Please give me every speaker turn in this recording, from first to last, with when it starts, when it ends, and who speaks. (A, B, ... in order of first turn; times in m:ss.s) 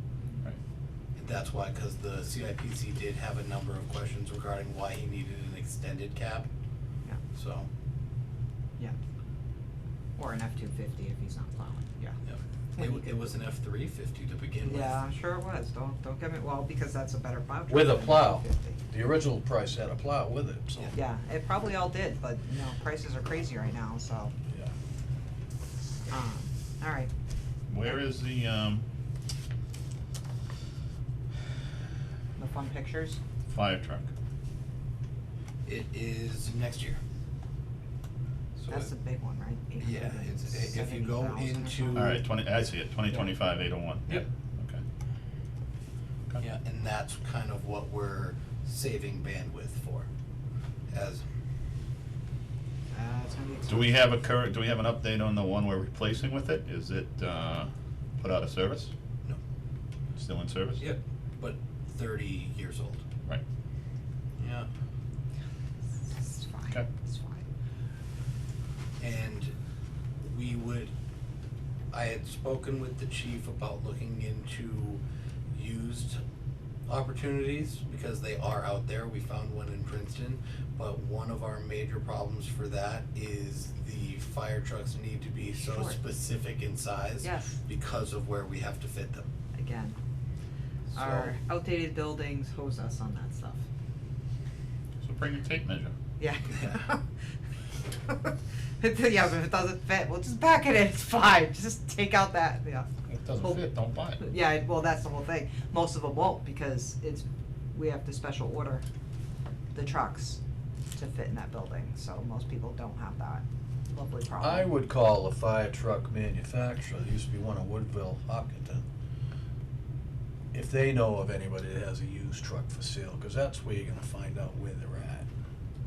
0:01.2-0:06.5 A
0:07.3-0:07.7 A
0:10.2-0:12.2 B
0:12.2-0:15.0 A
0:12.8-0:13.3 B
0:14.6-0:18.8 B
0:17.7-0:20.9 C
0:20.9-0:24.3 B
0:26.1-0:27.1 B
0:27.7-0:28.8 D
0:32.4-0:33.2 B
0:33.5-0:34.1 D
0:35.6-0:37.0 A
0:38.6-0:38.9 A
0:38.7-0:42.2 B
0:39.8-0:42.2 A
0:41.9-0:44.8 D
0:46.4-0:50.1 A
0:50.9-0:51.2 A
0:52.9-0:54.1 B
0:53.7-0:58.9 D
1:00.1-1:00.9 D
1:00.8-1:03.0 A
1:04.4-1:04.7 A
1:06.1-1:07.4 B
1:09.0-1:09.5 A
1:10.2-1:10.9 A
1:11.9-1:16.2 A
1:16.9-1:29.3 A
1:25.6-1:26.0 B
1:27.2-1:27.7 B
1:29.5-1:30.0 B
1:30.9-1:31.4 A
1:30.9-1:33.6 B
1:35.0-1:35.9 D
1:36.2-1:37.1 B
1:38.0-1:42.9 B
1:43.1-1:44.2 D
1:44.2-1:48.8 B
1:49.7-1:50.4 B
1:50.9-1:54.7 B
1:54.4-1:58.8 C
2:00.5-2:05.3 C